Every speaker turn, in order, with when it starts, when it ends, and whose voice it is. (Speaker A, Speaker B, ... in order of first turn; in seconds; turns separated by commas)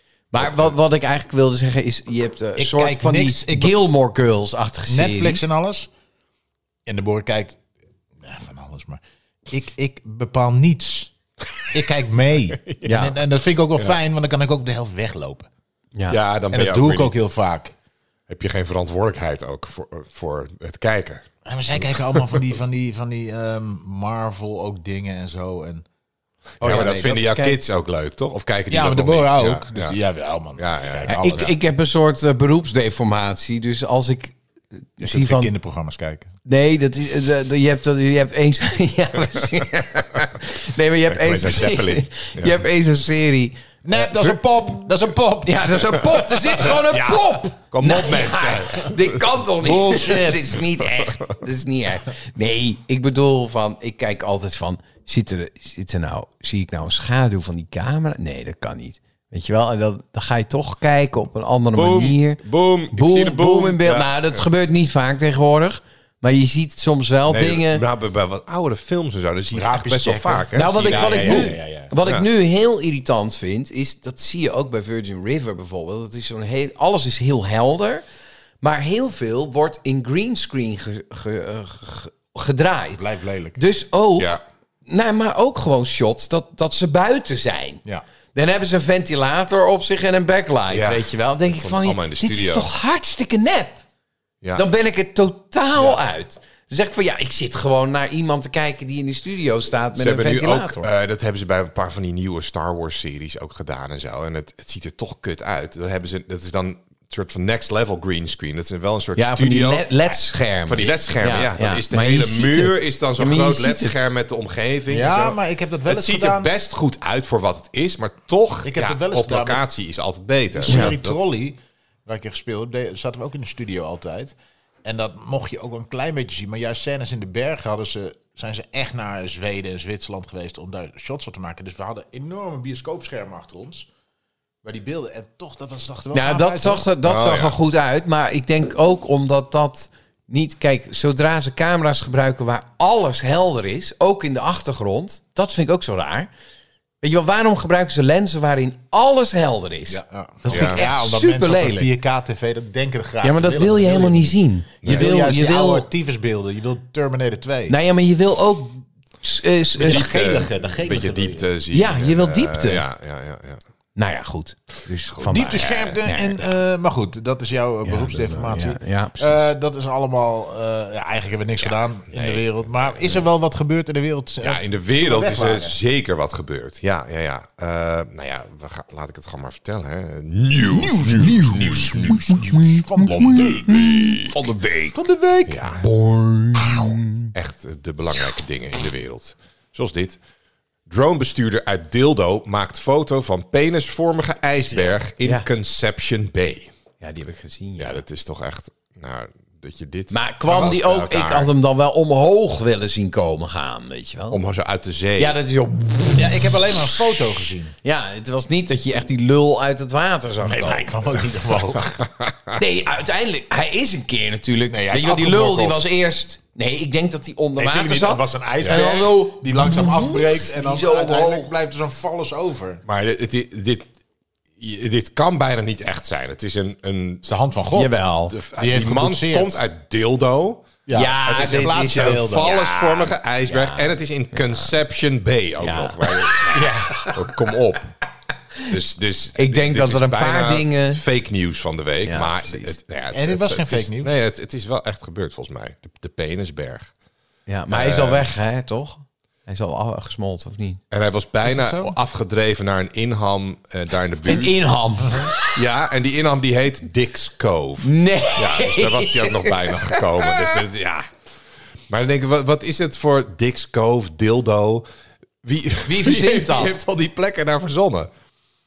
Speaker A: 0.3-5.5, Speaker B: 2.6-3.8, Speaker B: 4.9-5.9, Speaker B: 6.8-7.6, Speaker B: 8.2-11.1, Speaker B: 11.7-15.5, Speaker A: 12.8-13.1, Speaker C: 16.1-17.2, Speaker B: 16.5-17.7, Speaker C: 18.3-21.2, Speaker B: 21.4-25.8, Speaker C: 21.9-22.4, Speaker A: 26.6-27.6, Speaker C: 26.6-30.0, Speaker B: 26.6-27.0, Speaker B: 28.7-31.5, Speaker C: 30.6-31.5, Speaker A: 31.1-34.4, Speaker A: 35.0-35.5, Speaker B: 35.0-36.3, Speaker A: 36.4-44.4, Speaker C: 41.1-42.6, Speaker B: 43.8-46.4, Speaker A: 45.4-62.4, Speaker C: 46.6-49.2, Speaker B: 49.6-50.6, Speaker C: 50.8-51.1, Speaker C: 61.8-64.4, Speaker A: 62.9-67.8, Speaker C: 67.3-72.2, Speaker B: 69.5-71.9, Speaker A: 70.5-78.0, Speaker A: 78.6-83.0, Speaker B: 83.0-83.6, Speaker A: 83.5-87.8, Speaker A: 88.3-93.8, Speaker C: 90.7-92.7, Speaker A: 94.5-100.9, Speaker C: 99.9-121.2, Speaker A: 109.2-113.9, Speaker B: 114.9-116.5, Speaker B: 118.6-119.6, Speaker B: 120.6-133.9, Speaker A: 120.7-120.9, Speaker B: 134.6-136.8, Speaker A: 136.1-146.3, Speaker C: 137.0-137.6, Speaker A: 147.0-151.9, Speaker B: 149.9-157.7, Speaker C: 150.5-150.8, Speaker A: 153.2-155.9, Speaker C: 154.8-155.1, Speaker A: 157.7-160.1, Speaker B: 159.8-161.4, Speaker C: 159.8-163.6, Speaker A: 161.7-162.8, Speaker A: 163.9-166.4, Speaker C: 165.2-166.0, Speaker B: 165.3-175.8, Speaker A: 167.8-169.5, Speaker C: 171.6-173.1, Speaker C: 174.4-182.3, Speaker B: 180.7-183.8, Speaker A: 182.1-185.0, Speaker C: 183.2-184.4, Speaker B: 184.9-185.6, Speaker C: 185.5-190.2, Speaker A: 185.9-187.3, Speaker C: 190.9-196.7, Speaker A: 195.2-195.4, Speaker A: 197.0-198.0, Speaker C: 197.8-201.5, Speaker A: 200.1-204.4, Speaker C: 204.3-205.4, Speaker A: 205.2-206.8, Speaker B: 206.1-207.7, Speaker A: 207.8-210.9, Speaker B: 210.4-212.0, Speaker C: 211.8-212.6, Speaker A: 212.6-221.5, Speaker B: 214.7-215.9, Speaker B: 217.6-222.8, Speaker C: 222.8-223.9, Speaker C: 224.6-227.2, Speaker B: 227.2-228.0, Speaker A: 227.7-228.3, Speaker C: 228.3-230.7, Speaker B: 228.5-229.6, Speaker B: 230.8-232.5, Speaker A: 230.9-234.4, Speaker C: 231.2-237.9, Speaker A: 235.6-237.2, Speaker C: 238.7-246.9, Speaker A: 239.4-241.0, Speaker A: 242.0-242.7, Speaker B: 243.1-244.2, Speaker A: 247.5-250.8, Speaker C: 247.7-248.3, Speaker C: 250.9-254.6, Speaker B: 251.4-251.9, Speaker A: 254.2-255.5, Speaker C: 255.4-261.1, Speaker A: 257.8-260.6, Speaker C: 261.9-264.9, Speaker C: 265.4-268.1, Speaker A: 265.9-266.8